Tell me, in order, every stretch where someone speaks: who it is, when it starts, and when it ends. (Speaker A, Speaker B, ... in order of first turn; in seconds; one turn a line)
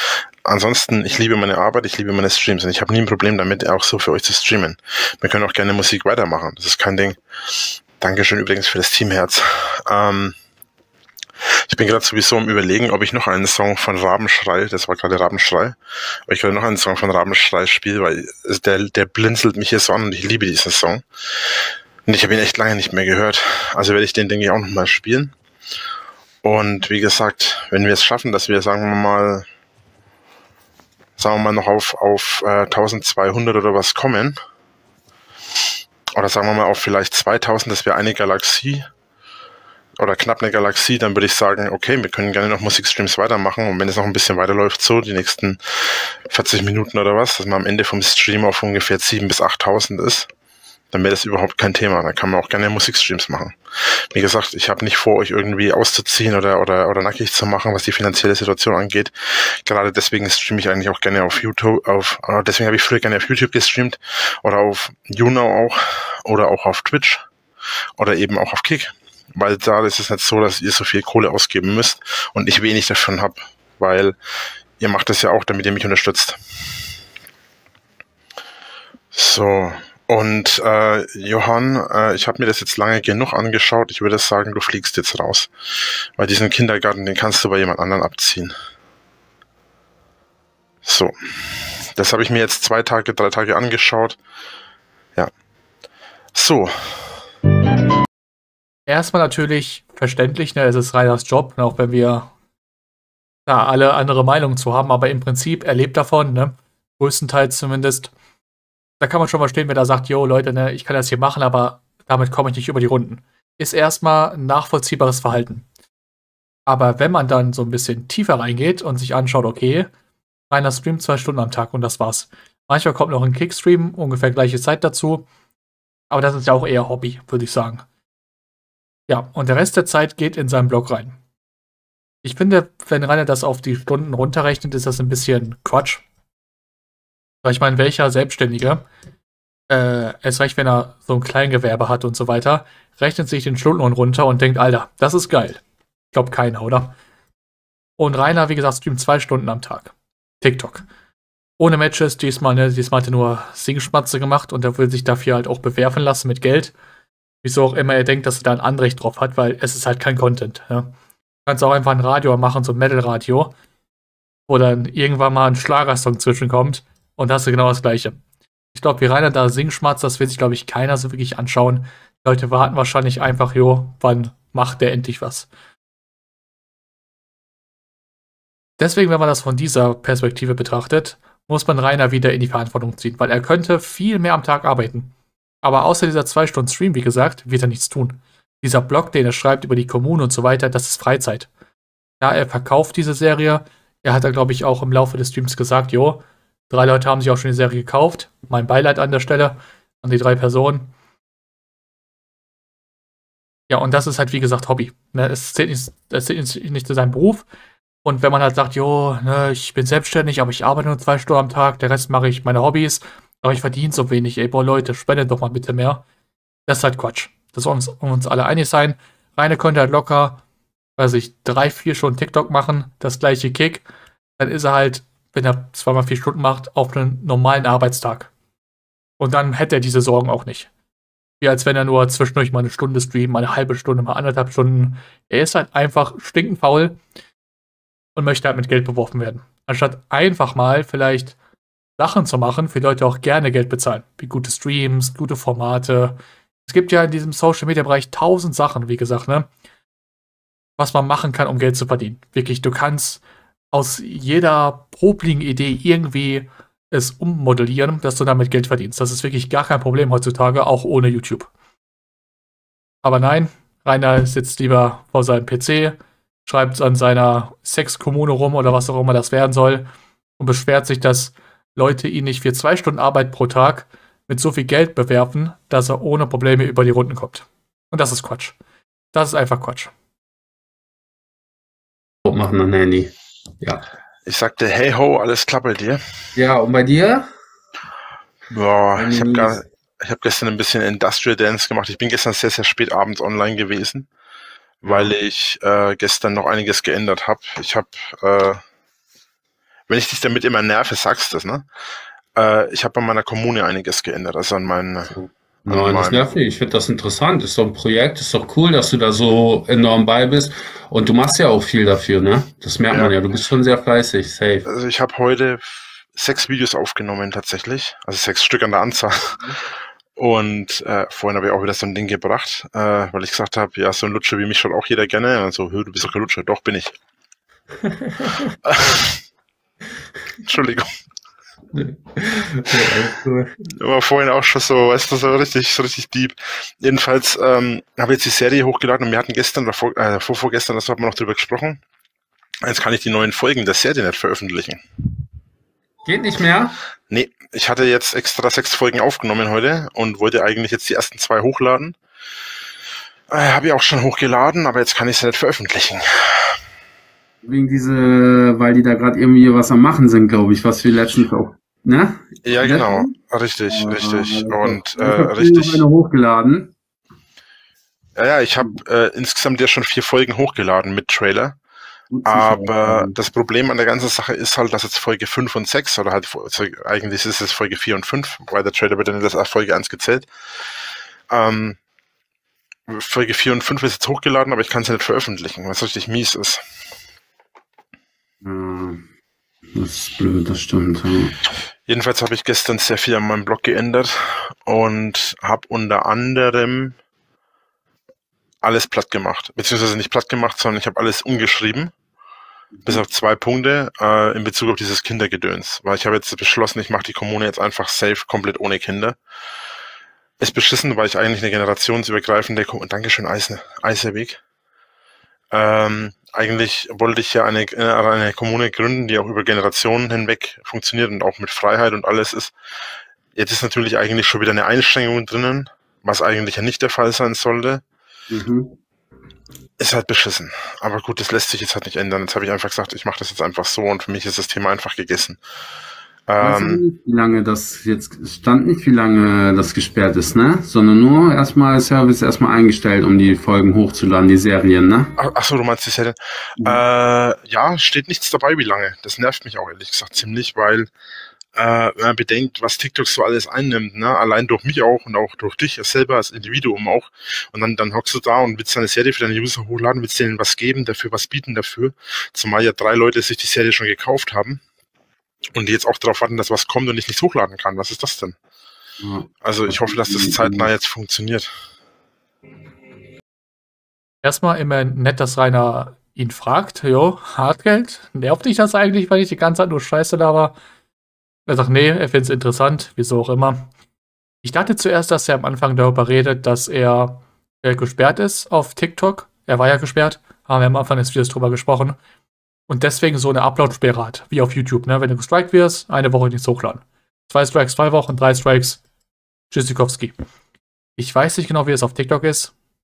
Speaker A: 0.5-7.2
Speaker A: 8.0-10.3
Speaker A: 11.7-21.1
Speaker A: 22.1-25.4
Speaker A: 26.4-29.5
Speaker A: 31.2-34.4
Speaker A: 36.1-38.9
Speaker A: 40.0-50.3
Speaker A: 50.9-53.6
Speaker A: 54.1-67.2
Speaker A: 68.0-74.2
Speaker A: 74.8-76.4
Speaker A: 79.1-85.5
Speaker A: 86.2-88.5
Speaker A: 90.8-91.1
Speaker A: 91.9-94.2
Speaker A: 96.3-97.1
Speaker B: 98.9-102.3
Speaker B: 103.5-108.1
Speaker B: 109.0-115.7
Speaker B: 116.7-119.9
Speaker B: 120.5-125.3
Speaker B: 126.1-127.9
Speaker B: 129.1-131.2
Speaker B: 132.2-136.0
Speaker B: 137.4-138.8
Speaker B: 139.7-146.9
Speaker B: 148.0-150.9
Speaker B: 151.6-156.7
Speaker B: 157.4-160.9
Speaker B: 161.5-163.5
Speaker B: 164.5-168.2
Speaker B: 168.8-175.5
Speaker B: 178.8-191.5
Speaker B: 192.2-200.9
Speaker B: 203.7-207.5
Speaker B: 208.0-216.0
Speaker B: 216.7-220.4
Speaker B: 221.0-223.8
Speaker B: 224.4-228.3
Speaker B: 229.2-230.7
Speaker B: 231.4-237.0
Speaker B: 238.2-241.4
Speaker B: 242.0-249.5
Speaker B: 250.8-261.5
Speaker B: 263.0-269.9
Speaker B: 270.4-278.6
Speaker B: 279.1-279.9
Speaker C: 282.2-283.9
Speaker A: 284.2-286.0
Speaker C: 286.4-287.3
Speaker A: 288.5-294.1
Speaker C: 289.0-289.6
Speaker A: 294.8-298.6
Speaker C: 294.8-295.1
Speaker A: 299.9-301.7
Speaker A: 302.4-305.1
Speaker C: 305.1-314.7
Speaker A: 305.7-306.3
Speaker A: 314.7-319.1
Speaker A: 320.2-326.9
Speaker C: 328.1-328.4
Speaker A: 328.7-329.2
Speaker A: 330.4-330.9
Speaker C: 331.7-333.5
Speaker A: 333.7-341.8
Speaker A: 342.6-344.8
Speaker C: 346.1-346.8
Speaker A: 347.1-352.0
Speaker A: 353.3-356.6
Speaker C: 357.4-363.1
Speaker A: 362.4-365.9
Speaker C: 363.7-366.7
Speaker A: 368.2-371.6
Speaker C: 372.1-373.1
Speaker A: 372.2-380.3
Speaker A: 381.3-381.8
Speaker A: 382.9-386.6
Speaker C: 388.4-389.1
Speaker C: 389.8-391.4
Speaker A: 391.9-397.0
Speaker A: 398.6-401.9
Speaker C: 402.7-403.0
Speaker A: 402.9-409.2
Speaker A: 410.4-414.4
Speaker A: 415.5-422.6
Speaker A: 423.4-427.8
Speaker C: 428.3-428.8
Speaker A: 429.8-435.4
Speaker A: 436.3-436.8
Speaker C: 436.4-445.1
Speaker A: 445.2-450.9
Speaker A: 451.6-464.6
Speaker A: 465.6-468.4
Speaker C: 469.0-470.7
Speaker A: 469.4-471.5
Speaker B: 474.2-480.6
Speaker B: 481.5-483.7
Speaker B: 484.4-492.0
Speaker B: 492.7-498.8
Speaker B: 499.5-500.1
Speaker B: 501.0-502.5